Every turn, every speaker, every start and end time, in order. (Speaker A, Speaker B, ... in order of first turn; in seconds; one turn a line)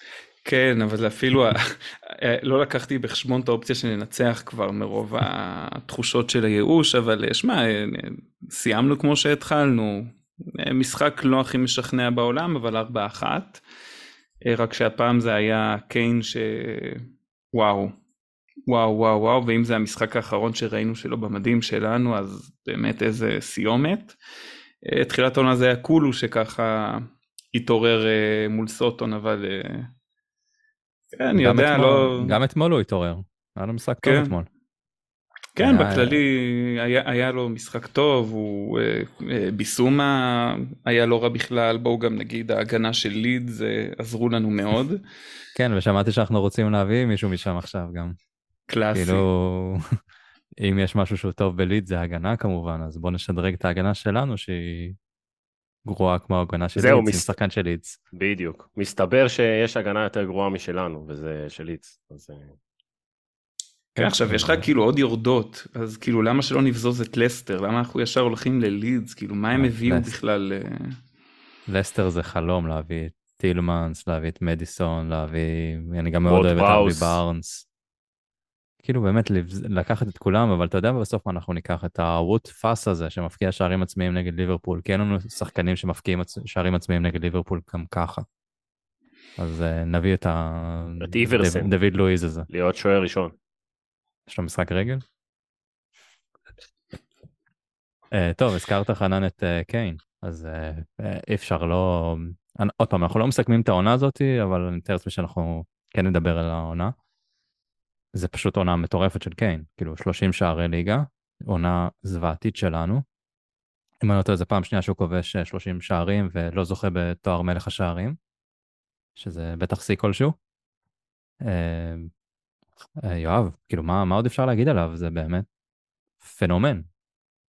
Speaker A: 0.5-13.6
Speaker A: 14.4-17.9
Speaker A: 18.7-24.2
Speaker A: 24.8-29.9
Speaker A: 31.2-32.4
Speaker B: 31.4-34.5
Speaker A: 34.0-34.4
Speaker A: 35.6-45.0
Speaker B: 35.6-36.2
Speaker B: 45.5-48.1
Speaker A: 48.7-49.2
Speaker B: 48.9-49.8
Speaker B: 50.6-55.0
Speaker B: 55.9-58.0
Speaker C: 56.8-57.3
Speaker C: 58.1-62.5
Speaker B: 64.0-64.7
Speaker A: 64.0-71.0
Speaker B: 69.6-70.1
Speaker B: 71.7-77.7
Speaker C: 76.3-77.2
Speaker B: 78.8-88.3
Speaker B: 89.4-92.5
Speaker C: 91.0-91.7
Speaker C: 92.5-93.3
Speaker B: 94.3-95.0
Speaker B: 98.1-106.9
Speaker B: 108.2-113.0
Speaker B: 114.0-118.2
Speaker B: 119.2-120.4
Speaker B: 121.4-122.1
Speaker B: 123.0-125.5
Speaker B: 126.2-126.9